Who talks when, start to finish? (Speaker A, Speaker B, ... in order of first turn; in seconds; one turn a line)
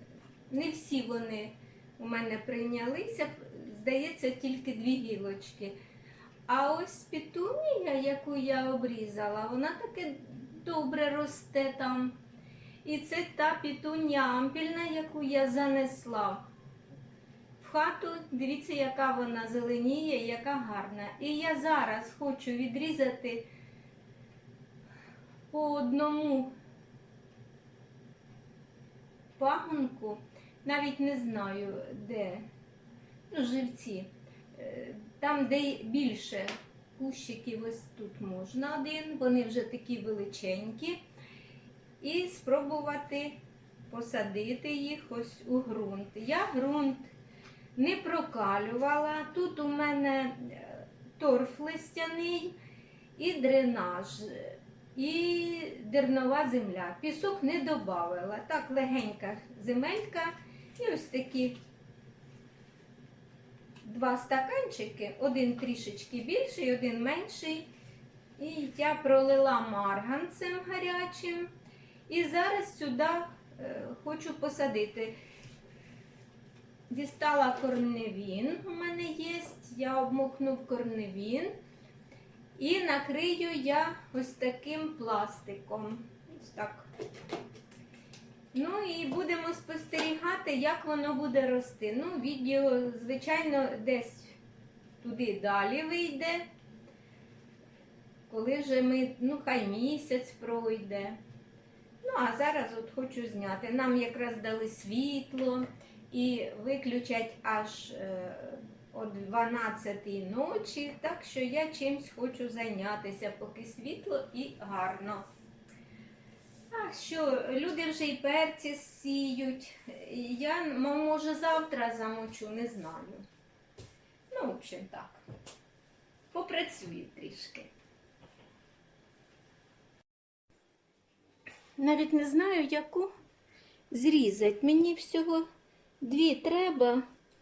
Speaker A: 0.5-5.8
Speaker A: 6.5-12.2
Speaker A: 12.8-16.5
Speaker A: 17.6-23.5
Speaker A: 25.5-26.5
Speaker A: 29.4-32.5
Speaker A: 33.3-41.0
Speaker A: 42.0-47.1
Speaker A: 47.8-52.6
Speaker A: 53.1-61.6
Speaker A: 63.8-67.7
Speaker A: 68.4-71.5
Speaker A: 72.1-75.2
Speaker A: 76.9-81.6
Speaker A: 82.6-86.9
Speaker A: 88.5-94.4
Speaker A: 95.0-96.5
Speaker A: 98.3-101.2
Speaker A: 102.0-115.2
Speaker A: 116.7-123.2
Speaker A: 124.3-125.2
Speaker A: 126.3-127.7
Speaker A: 131.8-133.1
Speaker A: 133.9-135.5
Speaker A: 136.0-137.0